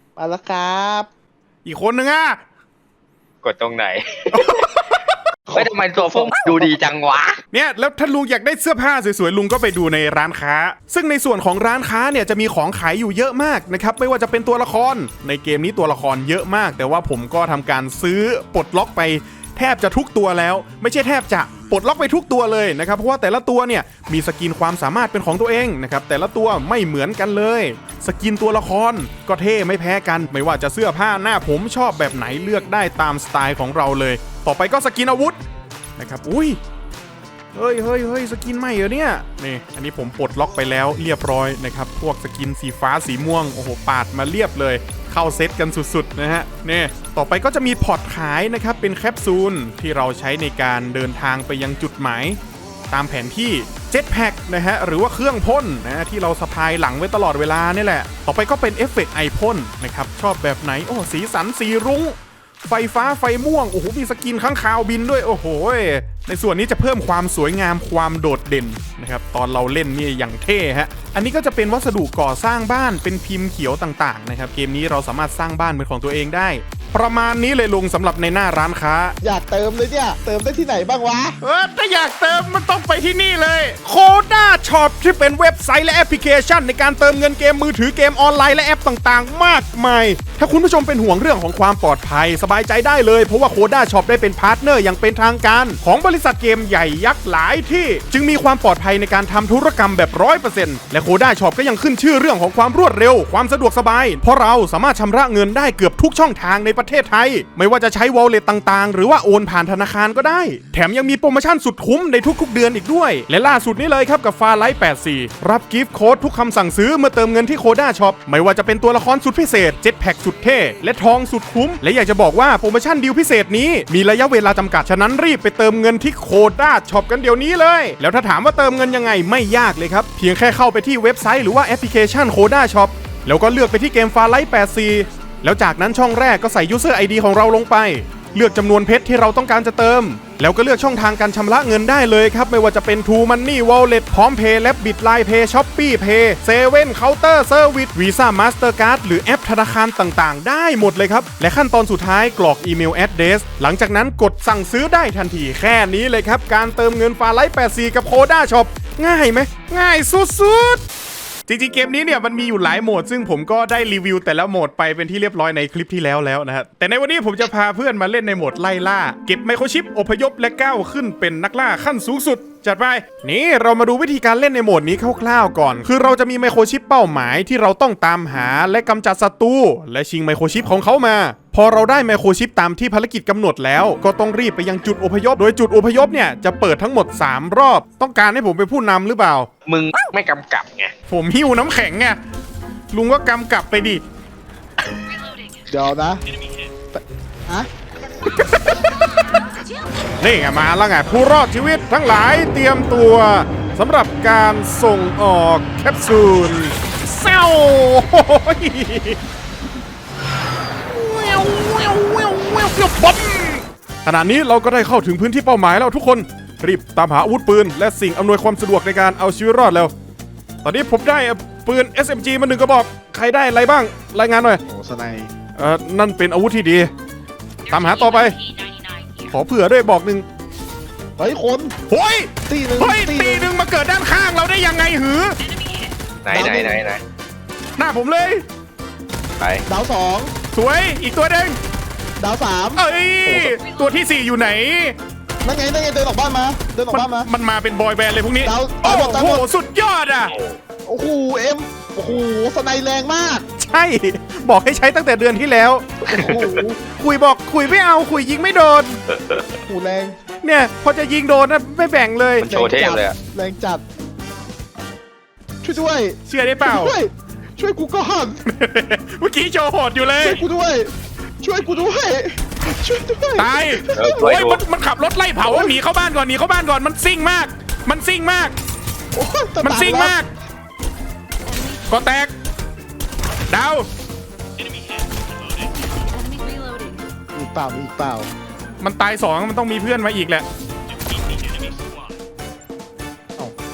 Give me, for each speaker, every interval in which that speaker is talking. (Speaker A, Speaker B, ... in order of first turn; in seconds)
Speaker A: 0.2-1.1, 5.5-6.8, 79.2-81.4, 195.7-196.2, 196.9-197.7, 224.7-225.3, 231.2-231.8, 232.5-233.5, 236.3-236.8, 239.7-240.3, 242.2-243.6, 245.4-247.3, 248.4-249.5, 250.8-253.4, 256.1-256.8, 259.7-260.2, 262.4-263.8, 265.6-268.4, 270.2-274.4, 275.5-275.8, 279.1-280.2, 287.3-288.3
Speaker B: 1.6-2.4, 4.3-5.2, 7.5-35.4, 36.0-36.6, 37.5-52.4, 52.9-79.2, 81.4-160.8, 161.5-189.5, 191.1-192.2, 192.9-194.0, 198.5-198.8, 200.2-209.2, 210.9-219.9, 220.6-224.6, 225.6-226.9, 227.7-228.4, 229.3-230.2, 231.9-235.4, 237.8-238.4, 240.5-241.6, 242.8-245.0, 246.9-250.3, 253.6-255.9, 256.9-259.0, 260.4-262.5, 266.3-266.9, 268.5-270.4, 273.4-278.6, 279.6-280.3, 281.9-282.3, 283.5-283.9, 288.8-290.5
Speaker C: 3.4-4.6, 5.5-7.4, 189.7-190.9, 236.2-237.0, 239.4-239.6, 250.3-250.6, 259.1-259.4, 262.4-263.2, 273.9-274.6
Speaker D: 228.0-229.2, 235.6-235.9, 281.5-281.9, 285.5-287.1